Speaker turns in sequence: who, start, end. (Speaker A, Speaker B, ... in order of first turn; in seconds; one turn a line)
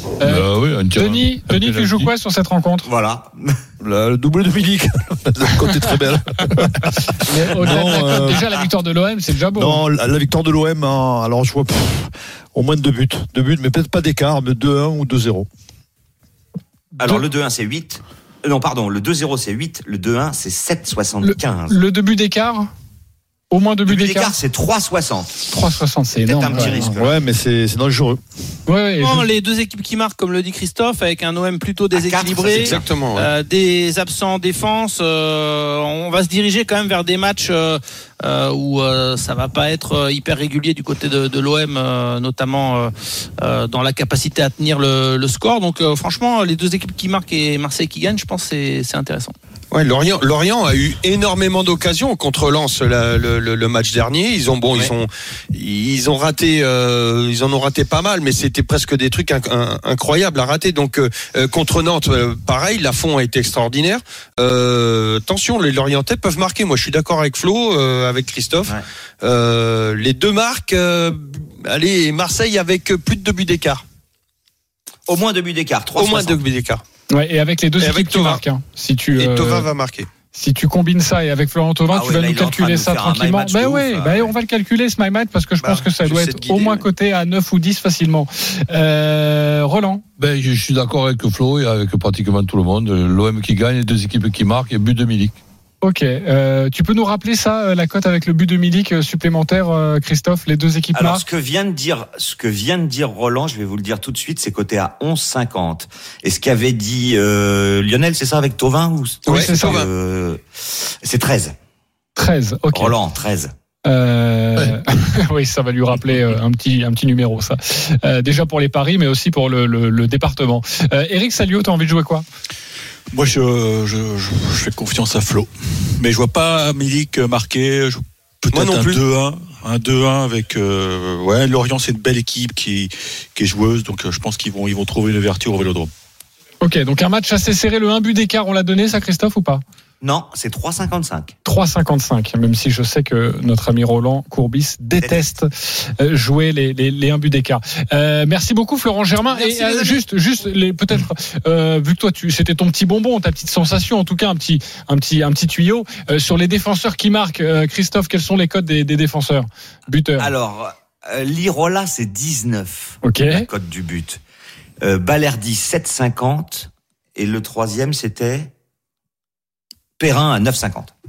Speaker A: 0.2-2.9
Speaker B: 0.2-2.1
Speaker C: 2.8-3.5
Speaker D: 3.8-8.5
Speaker A: 6.6-9.8
Speaker D: 9.6-15.5
Speaker C: 17.0-21.8
Speaker A: 21.2-22.7
Speaker A: 23.5-24.4
Speaker C: 23.9-25.4
Speaker A: 25.5-26.9
Speaker C: 26.2-27.1
Speaker D: 26.5-28.2
Speaker A: 28.6-29.3
Speaker E: 29.0-49.3
Speaker C: 31.9-32.8
Speaker F: 32.4-33.3
Speaker F: 49.7-73.8
Speaker C: 75.1-76.4
Speaker F: 75.9-76.8
Speaker A: 77.1-79.7
Speaker F: 77.8-78.4
Speaker F: 79.1-80.1
Speaker A: 80.3-90.0
Speaker C: 81.9-84.3
Speaker F: 85.6-86.8
Speaker B: 90.2-95.4
Speaker A: 95.8-101.2
Speaker C: 100.9-110.4
Speaker F: 109.2-109.9
Speaker A: 109.3-109.8
Speaker C: 111.0-111.5
Speaker A: 112.2-113.0
Speaker C: 112.7-113.5
Speaker A: 113.8-122.2
Speaker G: 123.1-135.9
Speaker F: 128.5-129.0
Speaker A: 136.6-139.6
Speaker C: 140.0-141.3
Speaker A: 141.4-160.3
Speaker E: 149.3-149.7
Speaker C: 160.2-164.2
Speaker A: 163.0-163.4
Speaker C: 164.8-168.5
Speaker C: 170.0-170.9